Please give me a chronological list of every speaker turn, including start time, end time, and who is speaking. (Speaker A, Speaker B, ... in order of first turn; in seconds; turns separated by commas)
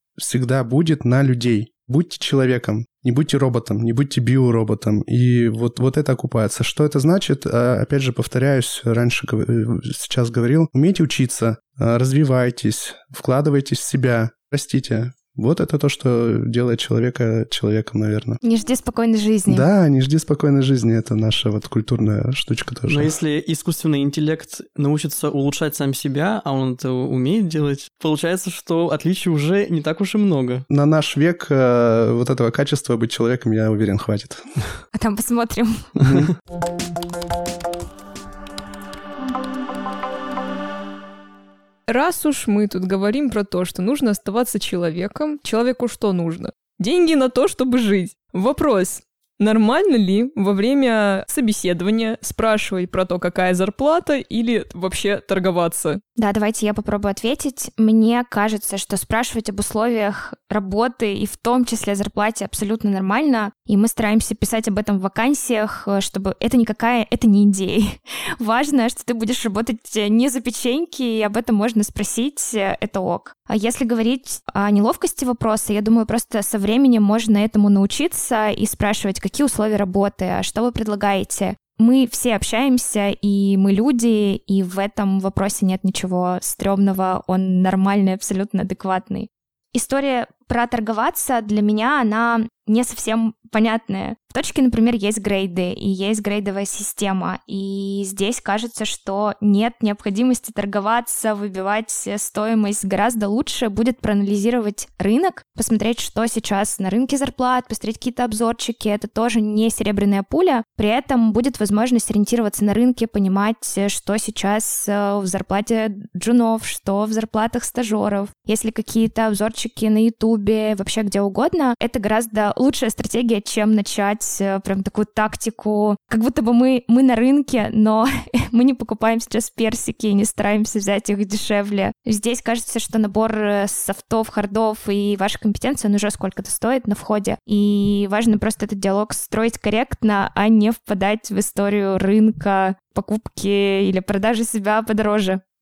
Speaker A: 0.2-18.4, Speaker B: 18.4-19.6, Speaker A: 19.5-23.1, Speaker C: 22.9-30.6, Speaker A: 30.7-34.5, Speaker B: 34.9-35.9, Speaker A: 36.0-36.3, Speaker D: 41.9-56.0, Speaker B: 56.2-145.4